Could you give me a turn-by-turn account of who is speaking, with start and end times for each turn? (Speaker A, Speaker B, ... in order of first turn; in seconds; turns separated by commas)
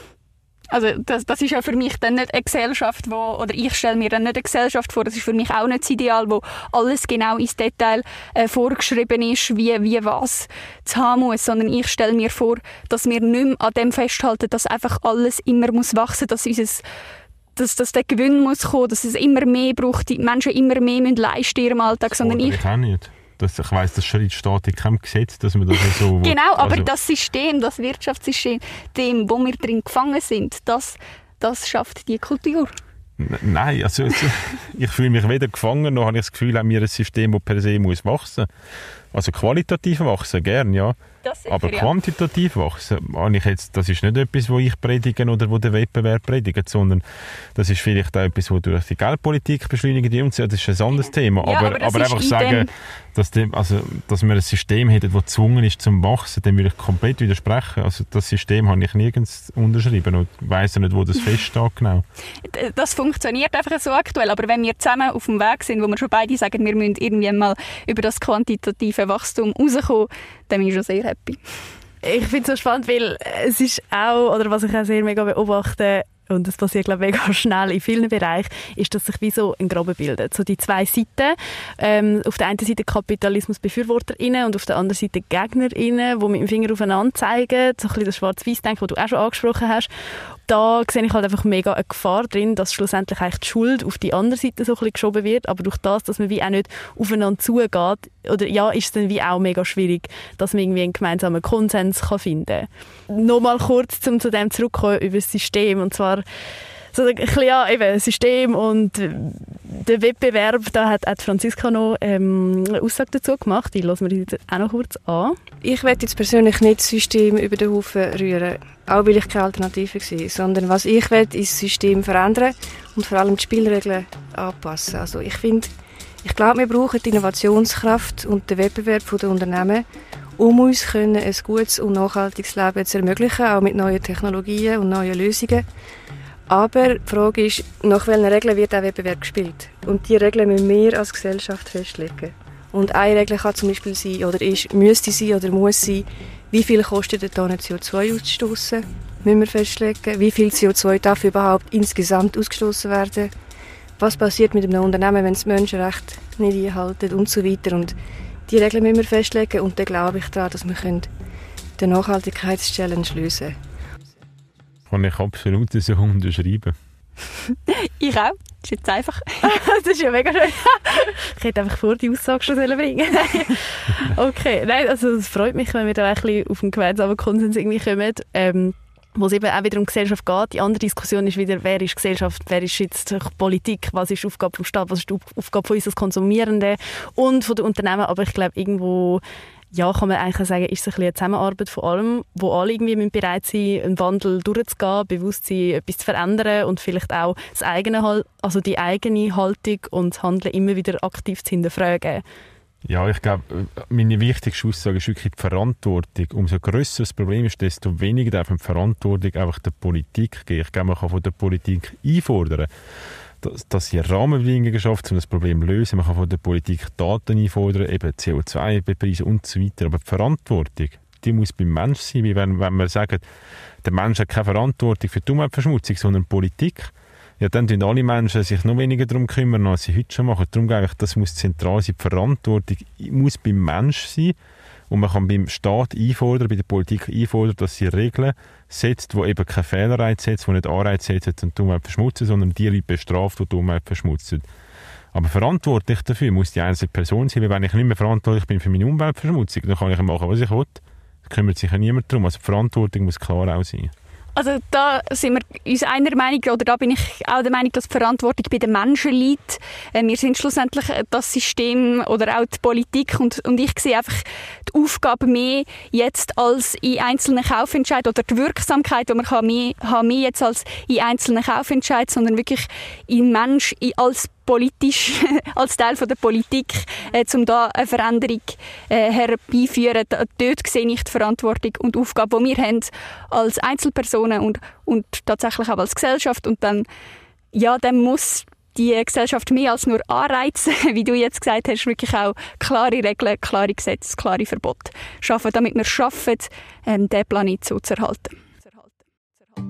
Speaker A: 0.7-16.8, Speaker A: 17.6-22.6, Speaker B: 22.1-26.9, Speaker A: 25.8-32.8, Speaker B: 33.2-38.5, Speaker B: 39.1-41.0, Speaker A: 41.2-41.9, Speaker B: 41.5-47.0, Speaker B: 47.5-62.0, Speaker A: 51.4-52.7, Speaker A: 62.5-71.4, Speaker C: 72.0-89.9, Speaker C: 90.5-106.2, Speaker C: 106.9-115.4, Speaker D: 115.6-125.7, Speaker D: 126.2-129.8, Speaker D: 130.4-135.7, Speaker D: 136.5-153.3, Speaker D: 154.0-157.9, Speaker D: 158.5-161.1, Speaker D: 161.8-163.6, Speaker B: 164.9-166.8, Speaker A: 167.5-169.6, Speaker C: 169.4-189.2, Speaker C: 189.7-202.2, Speaker B: 202.8-212.7, Speaker B: 213.4-223.2, Speaker B: 223.8-234.3, Speaker B: 234.9-244.5, Speaker B: 245.1-253.9, Speaker A: 254.3-286.9, Speaker A: 287.5-298.9